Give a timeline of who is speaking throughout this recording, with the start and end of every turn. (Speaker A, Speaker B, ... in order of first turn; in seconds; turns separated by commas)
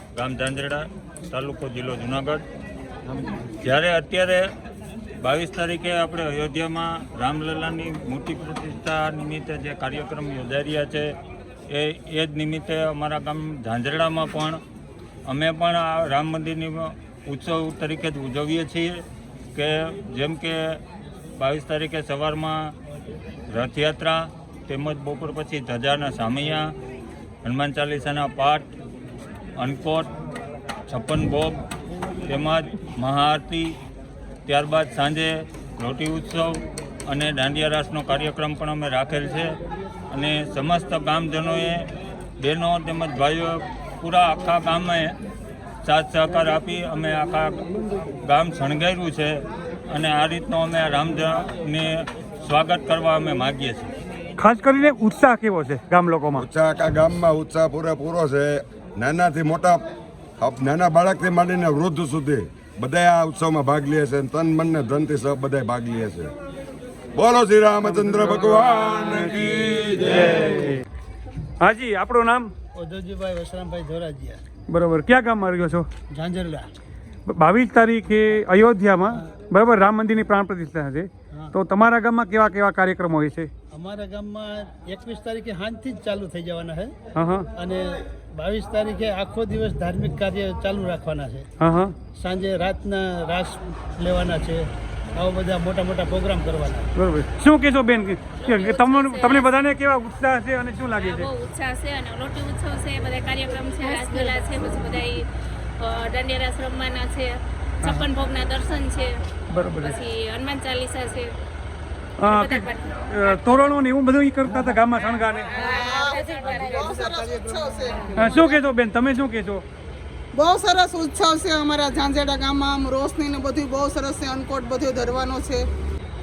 Speaker A: 0.1-2.4, Speaker A: 3.6-4.5, Speaker A: 5.2-11.1, Speaker A: 11.7-14.6, Speaker A: 15.2-20.8, Speaker A: 21.4-22.7, Speaker A: 23.5-26.7, Speaker A: 27.4-28.7, Speaker A: 29.6-30.1, Speaker A: 30.9-31.6, Speaker A: 32.2-33.8, Speaker A: 34.5-39.5, Speaker A: 40.1-45.1, Speaker A: 45.8-47.7, Speaker A: 48.2-53.9, Speaker B: 54.4-56.4, Speaker C: 56.4-59.9, Speaker C: 60.4-66.3, Speaker C: 67.1-70.7, Speaker B: 68.0-68.5, Speaker B: 70.1-70.8, Speaker B: 71.6-72.5, Speaker D: 72.7-74.4, Speaker B: 74.7-75.9, Speaker D: 76.1-76.7, Speaker B: 77.3-83.5, Speaker D: 83.7-86.9, Speaker B: 87.2-87.5, Speaker D: 87.5-91.5, Speaker B: 91.6-91.9, Speaker D: 92.1-96.9, Speaker B: 97.0-101.3, Speaker E: 98.4-99.5, Speaker E: 101.0-109.2, Speaker B: 107.8-108.1, Speaker B: 109.5-110.0, Speaker E: 109.8-111.3, Speaker B: 112.2-115.6, Speaker E: 112.2-113.7, Speaker E: 115.5-117.5, Speaker F: 115.6-118.5, Speaker B: 118.1-119.6, Speaker F: 120.3-125.7